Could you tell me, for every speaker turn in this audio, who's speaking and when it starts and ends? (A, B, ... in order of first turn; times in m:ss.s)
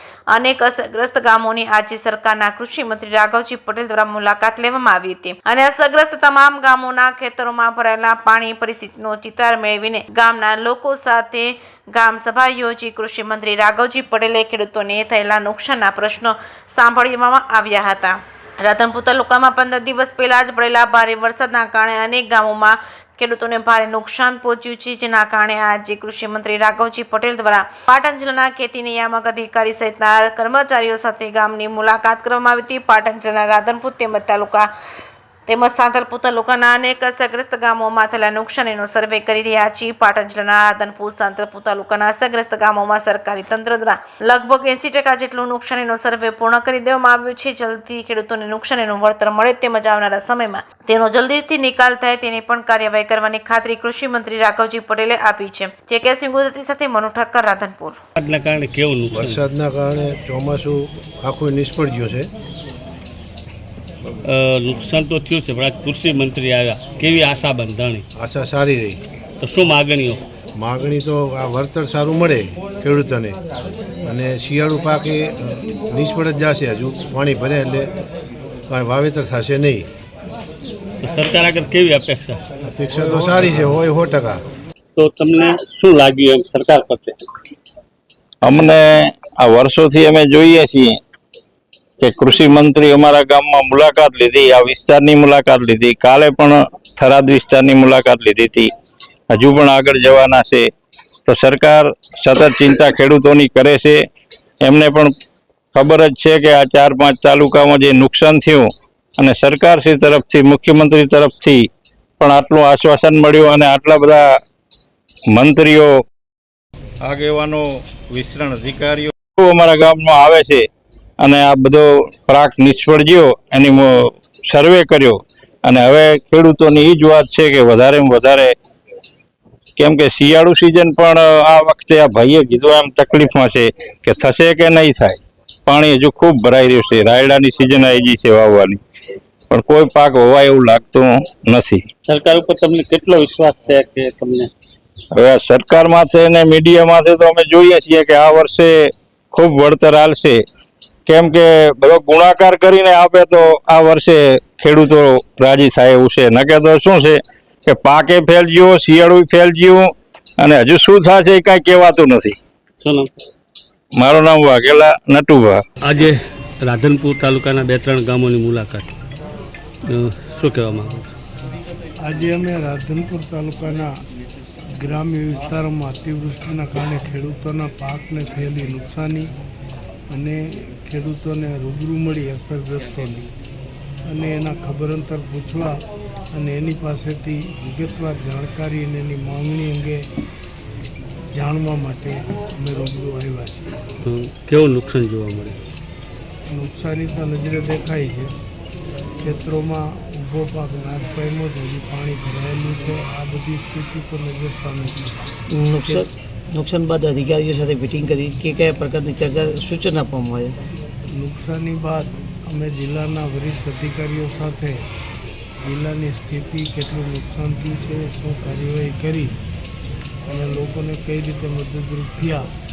0:00.3-0:34.7 A
0:35.5-0:58.0 A
0:58.2-0:59.4 B
0:59.1-1:02.3 C
1:04.2-1:08.0 B
1:08.2-1:09.0 C
1:09.4-1:10.2 B
1:10.6-1:13.4 C
1:14.0-1:17.9 C
1:18.7-1:19.9 C
1:21.0-1:22.4 B
1:22.6-1:24.4 C
1:25.0-1:27.2 B
1:28.4-1:31.0 D
1:32.0-1:38.7 D
1:39.3-1:40.7 D
1:41.3-1:44.0 D
1:44.6-1:45.1 D
1:45.8-1:51.6 D
1:52.2-1:54.2 D
1:55.3-1:55.9 D
1:57.0-2:00.7 D
2:01.2-2:08.5 D
2:09.8-2:18.8 D
2:19.5-2:21.8 D
2:22.1-2:24.5 B
2:25.1-2:30.4 D
2:31.1-2:39.9 D
2:40.4-2:42.4 D
2:42.8-2:43.1 B
2:44.0-2:45.6 D
2:45.9-2:49.0 B
2:49.9-2:51.1 B
2:52.0-2:53.9 E
2:54.8-2:59.3 E
3:00.1-3:03.3 E
3:04.1-3:05.8 E
3:06.3-3:10.1 E
3:11.3-3:13.8 E
3:14.0-3:15.6 B
3:16.5-3:18.3 E
3:19.2-3:25.2 E
3:25.5-3:30.6 F
3:31.2-3:34.8 E
3:35.6-3:39.4 E
3:40.3-3:42.5 E